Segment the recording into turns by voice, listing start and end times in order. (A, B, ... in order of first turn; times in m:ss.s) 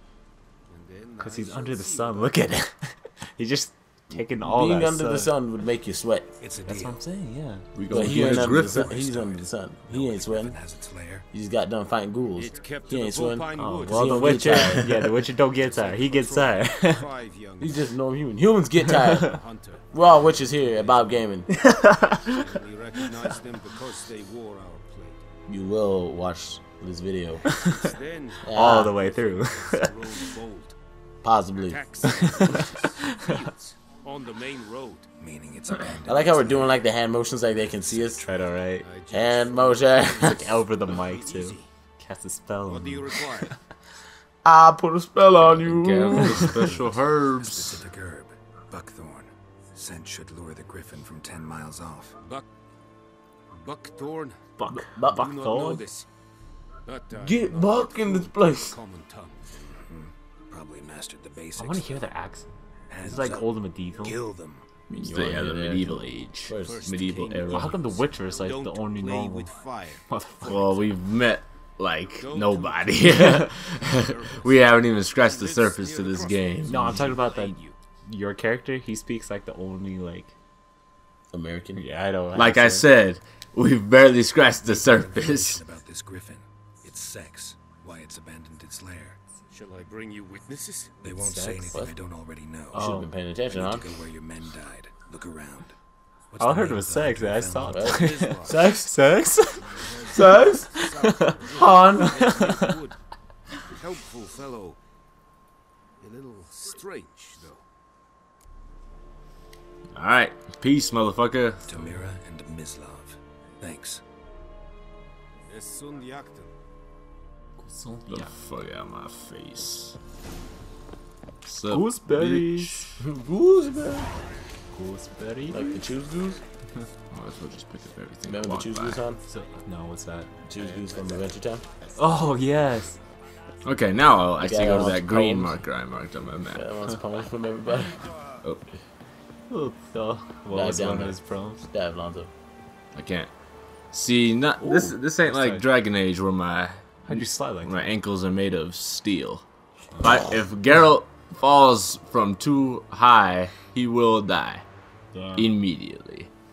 0:00.7-0:02.4 A
0:01.2-0:05.3 B
0:04.4-0:06.3 C
0:06.4-0:07.0 D
0:06.7-0:07.7 B
0:07.8-0:08.9 E
0:07.9-0:10.6 C
0:08.0-0:11.3 D
0:11.3-0:14.9 C
0:12.4-0:14.8 A
0:13.6-0:17.1 B
0:15.6-0:17.9 A
0:17.6-0:19.4 C
0:19.2-0:21.2 A
0:19.9-0:21.5 C
0:21.5-0:22.5 B
0:22.2-0:25.2 A
0:25.5-0:27.4 C
0:27.4-0:27.9 B
0:27.6-0:30.8 A
0:28.4-0:28.9 C
0:28.5-0:29.9 B
0:31.2-0:31.8 C
0:31.7-0:35.1 A
0:32.1-0:33.3 B
0:35.2-0:36.8 D
0:36.1-0:38.2 C
0:37.8-0:38.2 A
0:38.2-0:38.9 B
0:38.8-0:41.7 A
0:39.1-0:40.5 C
0:40.2-0:43.4 B
0:42.7-0:43.5 A
0:44.4-0:46.8 C
0:45.4-0:47.8 E
0:46.8-0:52.2 D
0:53.5-0:54.5 A
0:54.6-0:55.8 B
0:54.7-0:55.6 C
0:55.1-0:56.1 A
0:56.9-0:59.6 A
0:57.1-0:58.8 C
0:59.7-1:02.1 D
1:01.6-1:02.5 B
1:02.9-1:03.5 D
1:03.0-1:04.2 B
1:04.0-1:04.6 D
1:04.9-1:06.8 C
1:05.0-1:07.7 E
1:06.6-1:10.9 A
1:07.5-1:09.5 B
1:10.1-1:10.7 B
1:10.4-1:17.1 E
1:12.2-1:17.8 A
1:16.6-1:20.3 B
1:21.3-1:21.8 C
1:21.8-1:22.9 B
1:22.4-1:25.6 E
1:24.6-1:29.2 D
1:29.5-1:31.2 A
1:31.0-1:35.8 D
1:31.2-1:31.8 B
1:32.7-1:33.1 B
1:32.7-1:33.9 C
1:36.3-1:38.0 D
1:36.4-1:42.7 B
1:37.7-1:38.8 C
1:37.8-1:38.8 A
1:39.6-1:43.0 A
1:40.1-1:40.7 C
1:41.6-1:42.2 C
1:43.7-1:44.8 A
1:46.0-1:47.6 A
1:50.0-1:51.6 E
1:51.6-1:54.0 D
1:55.5-1:56.5 A
1:57.6-1:58.3 B
1:58.1-2:00.0 E
2:01.4-2:03.0 E
2:01.7-2:02.9 B
2:03.0-2:04.1 C
2:04.7-2:05.9 B
2:05.5-2:06.4 C
2:07.1-2:09.0 E
2:08.2-2:09.2 C
2:09.3-2:10.3 B
2:10.5-2:11.6 C
2:10.5-2:12.2 A
2:12.0-2:13.0 B
2:13.6-2:16.6 E
2:14.4-2:15.6 C
2:16.5-2:18.0 C
2:19.5-2:21.6 B
2:20.5-2:22.3 C
2:23.0-2:23.3 E
2:23.9-2:29.4 E
2:24.6-2:25.7 B
2:27.1-2:27.9 B
2:30.0-2:34.6 E
2:35.1-2:35.5 B
2:35.3-2:36.3 E